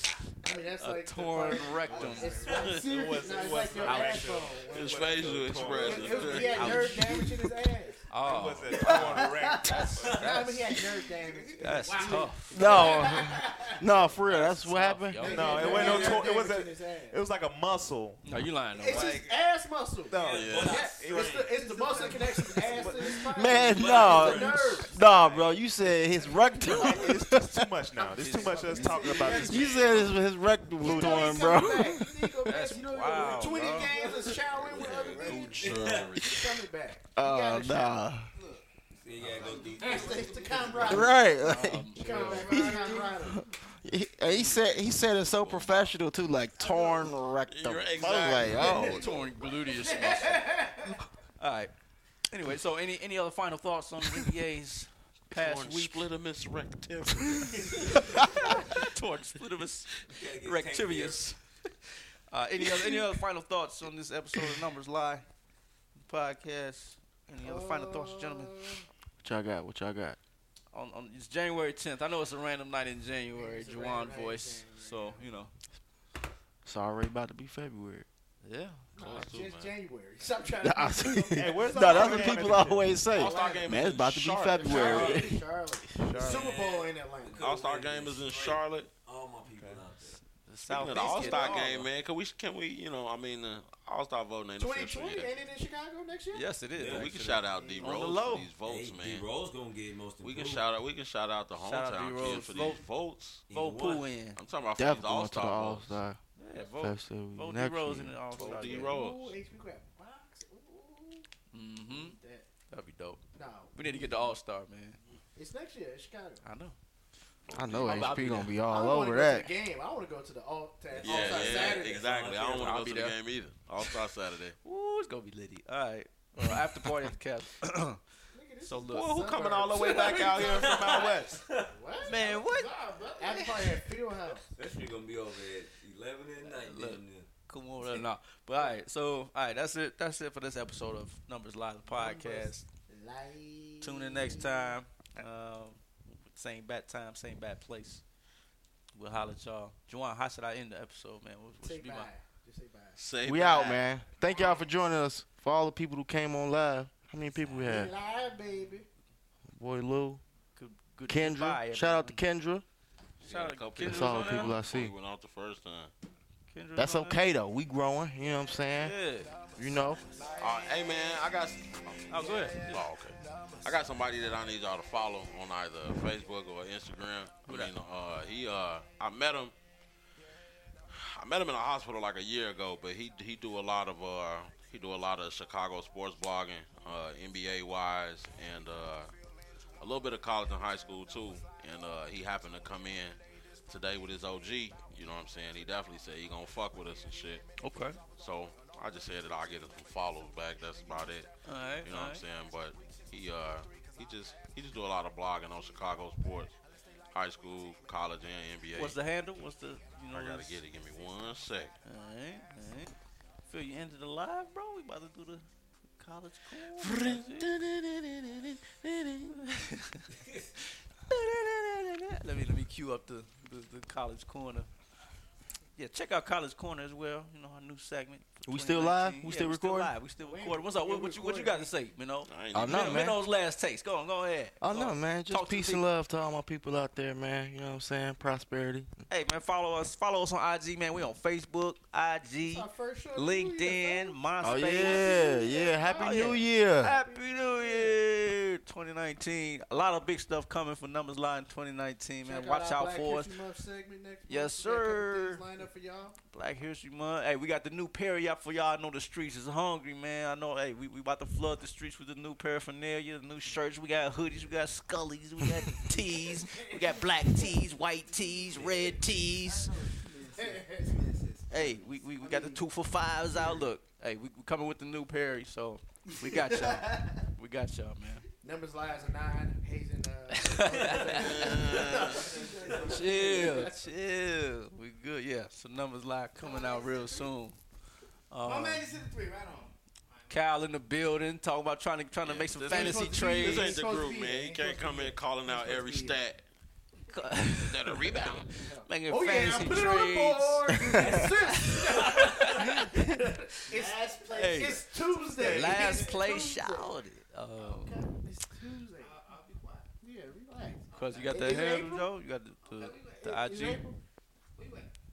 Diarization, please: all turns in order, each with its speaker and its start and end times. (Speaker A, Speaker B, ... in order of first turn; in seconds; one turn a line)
Speaker A: 0.3-8.1
Speaker B: 0.7-2.4
Speaker C: 1.4-7.2
Speaker D: 2.3-2.8
Speaker E: 2.6-3.1
Speaker F: 2.6-4.3
Speaker B: 3.8-4.3
Speaker E: 4.7-6.9
Speaker B: 6.3-7.2
Speaker B: 8.1-10.8
Speaker C: 8.2-10.4
Speaker A: 8.7-13.8
Speaker D: 9.9-10.4
Speaker F: 11.3-13.4
Speaker B: 11.6-13.0
Speaker G: 12.5-16.0
Speaker B: 14.2-16.2
Speaker A: 15.2-17.2
Speaker C: 15.2-18.2
Speaker F: 15.9-16.2
Speaker B: 18.2-19.3
Speaker A: 18.7-25.0
Speaker D: 18.9-19.3
Speaker C: 20.1-21.5
Speaker D: 20.1-21.5
Speaker E: 20.2-20.8
Speaker F: 21.5-23.9
Speaker C: 22.6-23.3
Speaker G: 23.3-27.7
Speaker D: 23.6-25.6
Speaker A: 26.6-27.2
Speaker B: 26.6-26.9
Speaker C: 26.6-30.0
Speaker A: 27.9-29.7
Speaker B: 28.2-29.6
Speaker F: 28.2-29.9
Speaker G: 29.4-32.5
Speaker A: 30.8-38.0
Speaker B: 31.2-31.9
Speaker B: 32.4-33.9
Speaker F: 33.1-34.4
Speaker D: 34.6-36.3
Speaker E: 34.7-36.4
Speaker F: 34.9-35.2
Speaker G: 37.1-38.3
Speaker F: 38.3-38.6
Speaker D: 38.9-40.4
Speaker C: 39.2-39.6
Speaker F: 39.3-41.1
Speaker A: 39.4-41.2
Speaker G: 40.8-41.9
Speaker B: 40.9-42.6
Speaker A: 41.9-43.4
Speaker F: 42.0-43.3
Speaker G: 42.5-49.0
Speaker B: 44.2-44.7
Speaker B: 45.4-45.9
Speaker A: 46.6-47.0
Speaker E: 47.5-49.0
Speaker C: 48.0-48.8
Speaker A: 48.1-51.0
Speaker B: 48.7-50.5
Speaker B: 51.4-51.7
Speaker B: 52.3-56.0
Speaker E: 55.3-58.2
Speaker A: 57.6-58.6
Speaker B: 58.0-65.3
Speaker D: 60.1-61.3
Speaker B: 66.0-68.5
Speaker A: 67.4-68.8
Speaker G: 69.2-70.2
Speaker B: 70.7-75.5
Speaker A: 73.3-75.2
Speaker G: 76.6-78.0
Speaker B: 78.4-78.8
Speaker A: 78.9-83.8
Speaker E: 79.0-79.7
Speaker G: 80.6-85.4
Speaker C: 81.3-83.0
Speaker E: 83.1-85.2
Speaker B: 83.2-83.6
Speaker A: 84.6-87.5
Speaker D: 84.8-85.3
Speaker C: 86.0-86.6
Speaker D: 86.2-90.2
Speaker E: 87.4-88.9
Speaker C: 89.5-89.8
Speaker B: 90.4-91.9
Speaker E: 90.7-95.3
Speaker A: 91.0-91.6
Speaker A: 94.6-96.5
Speaker B: 96.3-98.5
Speaker D: 96.7-97.2
Speaker E: 96.8-99.2
Speaker A: 97.5-98.1
Speaker D: 98.6-100.7
Speaker E: 100.2-103.4
Speaker B: 101.6-102.8
Speaker D: 103.5-104.1
Speaker B: 103.5-104.4
Speaker E: 104.3-106.0
Speaker G: 104.8-106.2
Speaker B: 106.4-108.9
Speaker G: 106.8-108.2
Speaker E: 108.3-109.3
Speaker A: 108.4-111.3
Speaker B: 111.5-112.2
Speaker A: 111.9-112.5
Speaker B: 112.7-113.2
Speaker A: 113.3-114.3
Speaker B: 113.7-115.0
Speaker A: 115.3-116.4
Speaker B: 116.4-116.8
Speaker E: 117.5-117.9
Speaker G: 117.5-119.5
Speaker B: 117.7-118.6
Speaker A: 117.9-122.0
Speaker D: 121.0-122.8
Speaker E: 121.0-124.5
Speaker B: 122.5-123.2
Speaker B: 124.6-128.0
Speaker A: 128.3-131.0
Speaker B: 128.6-129.1
Speaker E: 128.9-130.2
Speaker C: 129.4-131.4
Speaker D: 130.4-131.8
Speaker A: 131.6-132.3
Speaker B: 132.1-132.7
Speaker F: 132.2-133.8
Speaker A: 133.2-134.5
Speaker D: 134.6-137.3
Speaker B: 136.4-142.7
Speaker A: 141.8-144.8
Speaker B: 143.8-148.0
Speaker B: 148.9-152.1
Speaker A: 151.6-153.0
Speaker E: 153.0-153.8
Speaker G: 153.2-157.9
Speaker B: 157.4-157.7
Speaker A: 157.6-158.9
Speaker G: 159.5-160.2
Speaker B: 160.5-162.2
Speaker G: 161.1-162.6
Speaker B: 163.2-164.6
Speaker E: 163.2-165.9
Speaker G: 163.8-164.9
Speaker B: 166.5-167.2
Speaker G: 166.8-168.9
Speaker B: 168.7-169.3
Speaker G: 169.6-170.0
Speaker E: 170.4-179.5
Speaker B: 172.1-172.6
Speaker B: 177.4-177.7
Speaker E: 180.9-189.1
Speaker E: 189.8-197.4
Speaker B: 197.6-198.0
Speaker E: 198.2-201.3
Speaker B: 201.4-202.2
Speaker E: 201.8-206.5
Speaker E: 207.1-209.0
Speaker B: 208.8-210.6
Speaker E: 210.1-211.7
Speaker B: 211.8-212.9
Speaker B: 213.5-215.4
Speaker B: 216.0-217.5
Speaker G: 216.8-219.3
Speaker B: 219.3-220.0
Speaker B: 221.1-224.7
Speaker B: 225.8-235.8
Speaker G: 228.4-229.9
Speaker A: 230.2-231.7
Speaker E: 232.3-233.0
Speaker G: 232.5-233.2
Speaker G: 234.6-238.9
Speaker B: 239.1-245.3
Speaker A: 242.4-248.0
Speaker G: 244.4-246.9
Speaker B: 245.9-253.3
Speaker A: 252.2-256.2
Speaker B: 254.3-255.4
Speaker B: 256.3-269.7
Speaker F: 268.5-272.0
Speaker A: 270.4-270.8
Speaker B: 271.5-278.2
Speaker A: 272.2-272.6
Speaker A: 278.4-283.8
Speaker B: 280.3-281.5
Speaker D: 280.7-281.0
Speaker F: 281.1-283.7
Speaker E: 281.2-282.3
Speaker D: 282.2-283.2
Speaker B: 282.8-287.6
Speaker F: 286.4-287.3
Speaker B: 288.3-288.9
Speaker F: 288.4-290.4
Speaker B: 290.3-293.8
Speaker E: 292.2-296.4
Speaker A: 292.7-296.2
Speaker B: 297.1-303.7
Speaker E: 297.5-298.5
Speaker A: 298.6-306.9
Speaker D: 301.0-302.7
Speaker F: 303.7-305.1
Speaker B: 304.3-308.0
Speaker C: 305.3-306.1
Speaker A: 307.7-309.2
Speaker F: 308.9-309.9
Speaker A: 310.0-312.1
Speaker F: 310.9-311.9
Speaker B: 310.9-313.8
Speaker F: 312.6-313.5
Speaker A: 313.2-314.0
Speaker F: 314.5-314.9